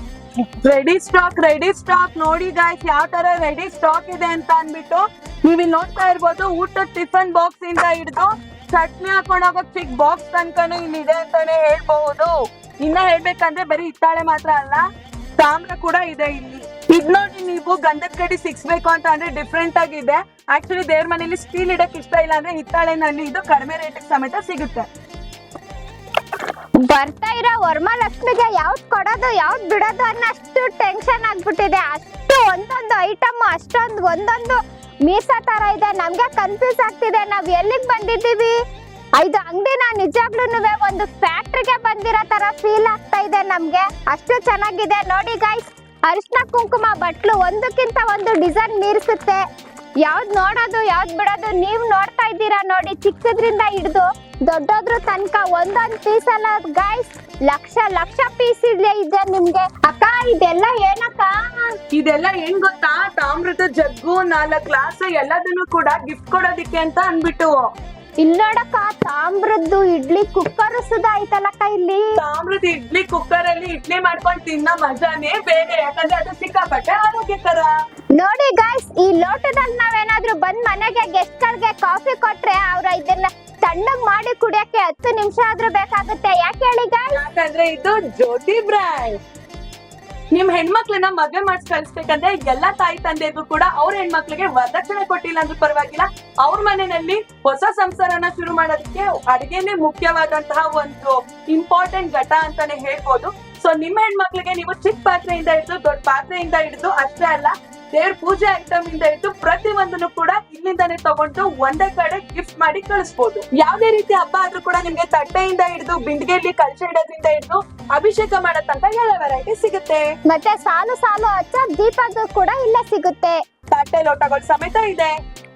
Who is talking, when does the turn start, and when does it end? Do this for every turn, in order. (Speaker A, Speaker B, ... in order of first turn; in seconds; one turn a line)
Speaker A: 0.6-14.9
Speaker A: 15.4-24.9
Speaker B: 26.8-38.6
Speaker B: 39.2-49.4
Speaker B: 50.0-61.8
Speaker A: 61.9-67.6
Speaker B: 68.2-72.2
Speaker A: 72.2-77.7
Speaker B: 78.2-87.2
Speaker A: 87.1-89.2
Speaker A: 90.3-120.1
Speaker B: 120.3-123.4
Speaker A: 123.7-125.2